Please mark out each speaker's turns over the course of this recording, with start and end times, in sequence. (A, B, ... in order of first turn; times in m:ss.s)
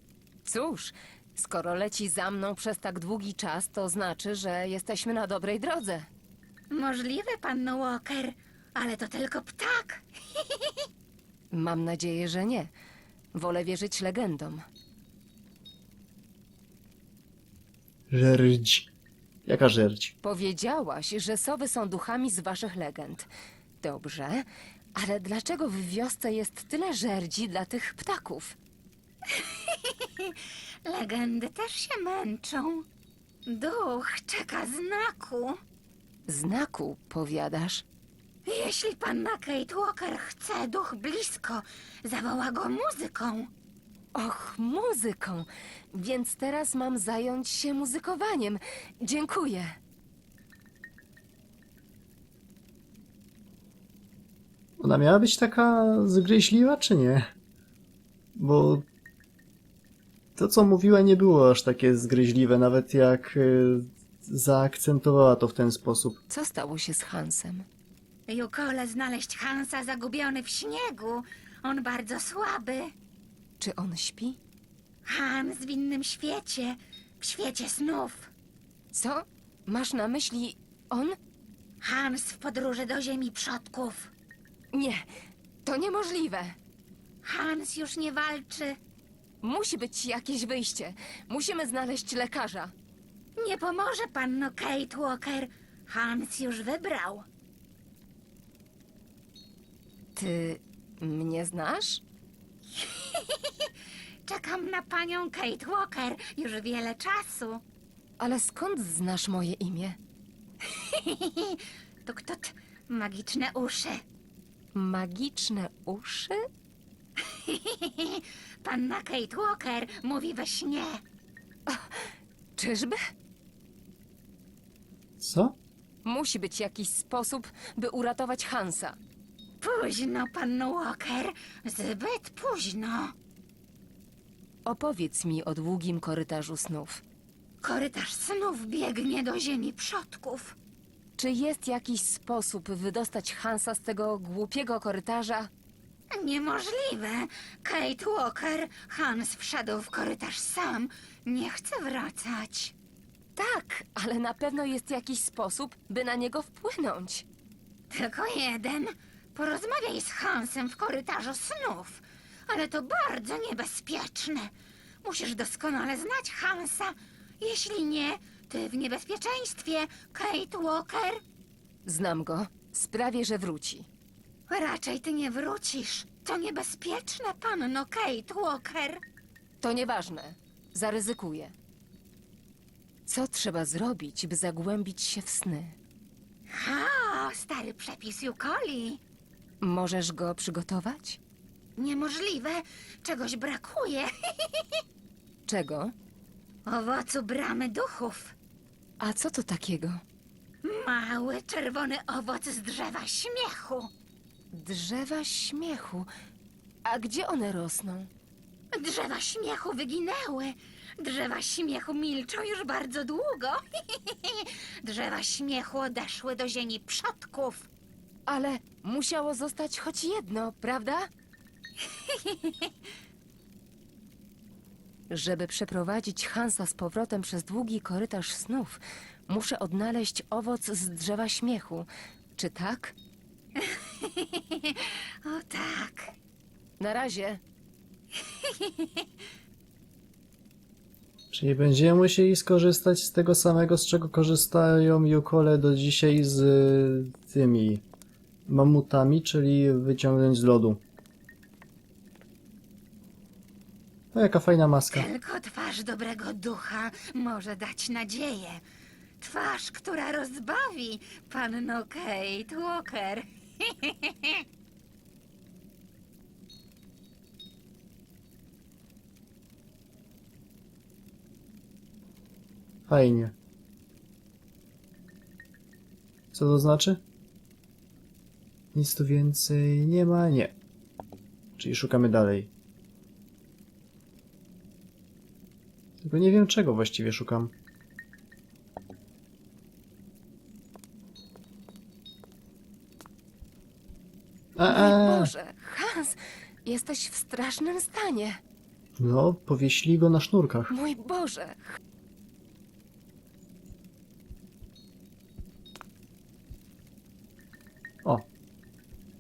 0:00.4-0:06.1 A
0:06.7-0:10.9 B
0:11.5-0:12.7 A
0:13.3-0:14.6 A
0:18.1-0:18.9 C
0:19.5-0:20.1 C
0:20.2-0:23.3 A
0:23.8-0:28.6 A
0:29.3-0:32.9 B
0:33.5-0:35.6 B
0:36.3-0:37.8 A
0:38.5-0:43.5 B
0:44.2-0:49.8 A
0:54.8-0:57.3 C
0:58.4-0:58.9 C
1:00.4-1:06.2 C
1:06.3-1:07.7 A
1:08.3-1:12.9 B
1:13.6-1:14.4 A
1:15.0-1:18.3 B
1:18.9-1:21.2 A
1:21.8-1:24.1 B
1:24.7-1:25.1 A
1:25.6-1:26.6 A
1:27.2-1:28.8 B
1:29.4-1:32.7 A
1:33.4-1:37.3 B
1:40.2-1:42.0 A
1:42.7-1:43.7 B
1:44.3-1:47.6 B
1:48.2-1:50.0 A
1:50.6-1:54.0 B
1:54.7-1:56.4 A
1:57.2-2:01.0 B
2:01.7-2:03.0 A
2:05.2-2:05.6 C
2:06.0-2:09.0 A
2:09.6-2:13.2 B
2:14.7-2:17.0 A
2:17.6-2:20.6 B
2:21.2-2:25.5 A
2:26.1-2:32.8 B
2:33.4-2:37.3 A
2:37.9-2:44.5 B
2:45.0-2:51.2 B
2:51.8-2:53.9 A
2:54.5-2:59.0 B
2:59.6-3:01.5 A
3:03.1-3:05.8 A
3:06.5-3:09.0 B
3:09.6-3:11.2 A
3:11.8-3:14.8 B
3:15.5-3:15.9 A
3:16.7-3:18.4 B
3:19.0-3:20.0 A
3:20.6-3:23.9 B
3:24.5-3:26.1 A
3:26.8-3:28.1 A
3:28.7-3:37.7 B
3:38.3-3:41.1 A
3:41.8-3:42.7 B
3:45.1-3:52.9 A
3:53.6-3:56.1 B
3:56.8-3:57.4 A
3:58.2-3:59.1 B
4:01.3-4:07.8 C
4:08.5-4:10.8 C
4:14.1-4:15.1 C
4:14.9-4:18.6 B
4:19.2-4:24.4 B
4:32.9-4:33.3 C
4:36.3-4:37.0 C
4:38.7-4:40.6 C
4:41.6-4:42.5 C
4:46.0-4:47.5 C
4:54.6-4:55.3 C
4:54.7-4:58.4 A
4:59.0-5:00.7 C
5:00.7-5:01.8 A